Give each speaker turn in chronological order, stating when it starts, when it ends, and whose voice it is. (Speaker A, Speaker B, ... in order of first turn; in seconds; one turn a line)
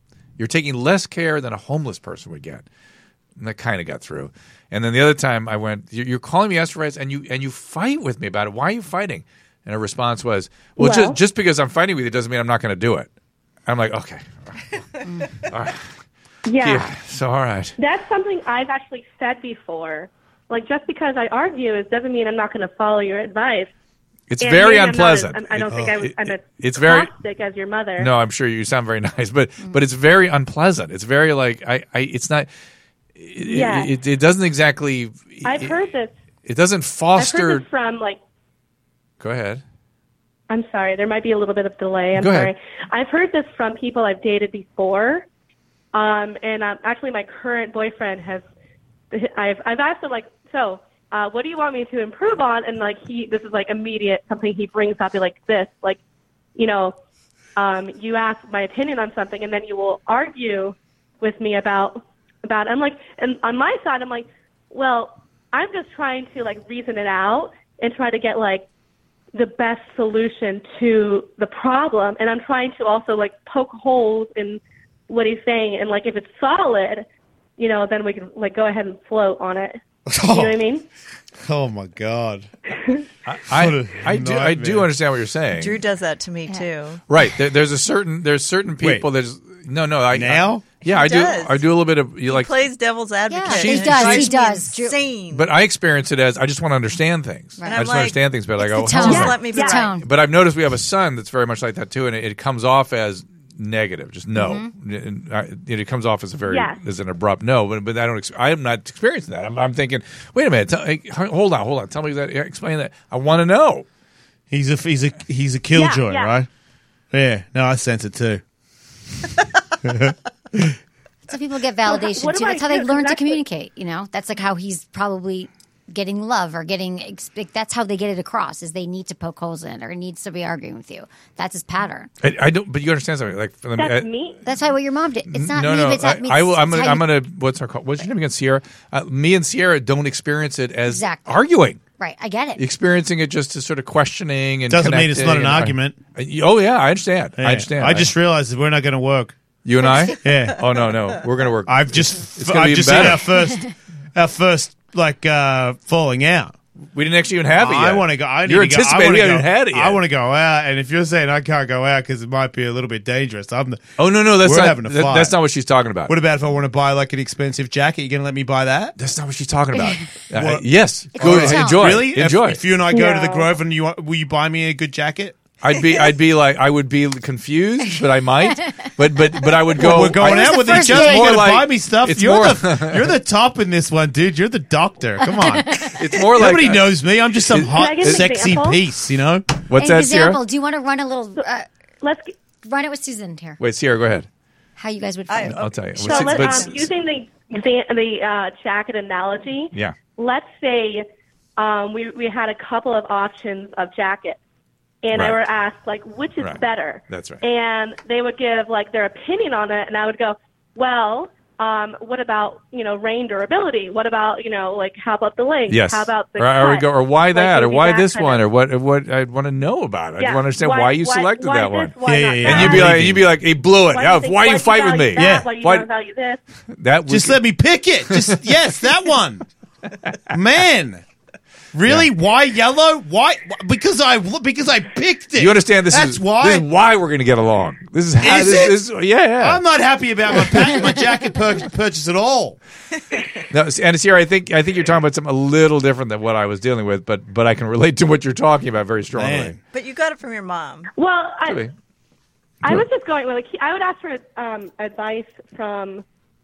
Speaker A: 0.4-2.6
Speaker A: 3.4-13.1
Speaker B: 10.8-11.2
Speaker A: 13.7-14.6
Speaker A: 15.4-15.8
Speaker B: 16.5-16.9
Speaker A: 16.6-17.8
Speaker B: 17.8-23.7
Speaker A: 24.3-27.1
Speaker B: 24.4-28.1
Speaker A: 28.0-32.5
Speaker A: 33.2-35.8
Speaker B: 33.4-33.9
Speaker B: 35.4-36.1
Speaker A: 36.5-37.6
Speaker B: 37.2-38.2
Speaker A: 39.2-39.6
Speaker B: 40.5-45.3
Speaker A: 42.2-42.5
Speaker B: 45.9-48.5
Speaker B: 49.1-56.0
Speaker B: 56.6-57.0
Speaker B: 57.6-68.7
Speaker B: 69.3-77.1
Speaker B: 77.6-80.8
Speaker C: 80.1-80.6
Speaker C: 81.4-82.5
Speaker A: 83.3-85.8
Speaker C: 83.5-84.9
Speaker D: 85.5-87.0
Speaker A: 87.1-92.5
Speaker C: 88.8-89.1
Speaker C: 90.1-90.6
Speaker D: 90.8-91.7
Speaker D: 92.3-95.5
Speaker E: 93.3-95.0
Speaker A: 93.5-94.3
Speaker A: 95.3-113.9
Speaker E: 97.6-97.9
Speaker D: 97.7-98.2
Speaker E: 98.6-100.1
Speaker D: 99.0-99.9
Speaker B: 99.1-99.8
Speaker E: 104.3-104.7
Speaker B: 106.5-106.8
Speaker C: 114.5-116.5
Speaker B: 115.7-116.3
Speaker C: 117.1-118.4
Speaker C: 119.8-120.8
Speaker E: 121.3-132.1
Speaker B: 121.9-123.4
Speaker A: 132.2-134.1
Speaker B: 133.8-134.4
Speaker E: 134.4-137.1
Speaker A: 135.3-141.8
Speaker E: 140.9-141.4
Speaker E: 142.0-142.6
Speaker A: 142.6-148.1
Speaker C: 144.7-146.0
Speaker C: 147.4-149.4
Speaker A: 149.7-153.3
Speaker C: 150.2-150.7
Speaker C: 151.7-156.6
Speaker A: 156.9-160.0
Speaker C: 157.6-165.4
Speaker A: 164.0-166.1
Speaker C: 166.1-169.0
Speaker A: 169.0-172.6
Speaker E: 169.8-170.1
Speaker C: 170.3-175.4
Speaker E: 171.2-171.9
Speaker B: 172.9-173.5
Speaker A: 175.6-183.1
Speaker C: 179.8-189.6
Speaker E: 180.1-181.4
Speaker E: 185.4-185.9
Speaker A: 185.9-186.9
Speaker A: 187.5-188.6
Speaker B: 187.7-188.8
Speaker A: 189.7-190.4
Speaker E: 189.8-191.7
Speaker B: 192.0-192.3
Speaker E: 192.6-193.6
Speaker A: 193.6-194.3
Speaker E: 194.8-195.6
Speaker D: 195.3-196.9
Speaker A: 195.5-196.9
Speaker B: 196.1-201.1
Speaker B: 201.6-204.4
Speaker B: 205.0-218.4
Speaker A: 205.1-205.4
Speaker A: 206.4-207.4
Speaker A: 215.7-225.9
Speaker B: 220.2-223.0
Speaker C: 222.0-223.3
Speaker B: 223.9-226.4
Speaker C: 225.2-225.5
Speaker A: 226.8-227.4
Speaker C: 227.1-229.5
Speaker A: 228.1-228.4
Speaker C: 230.3-231.0
Speaker C: 231.7-236.7
Speaker A: 235.4-239.6
Speaker C: 238.2-238.9
Speaker C: 239.4-242.6
Speaker A: 243.5-249.6
Speaker C: 249.1-249.6
Speaker D: 249.7-250.9
Speaker B: 250.9-251.6
Speaker A: 251.5-251.7
Speaker B: 252.6-256.0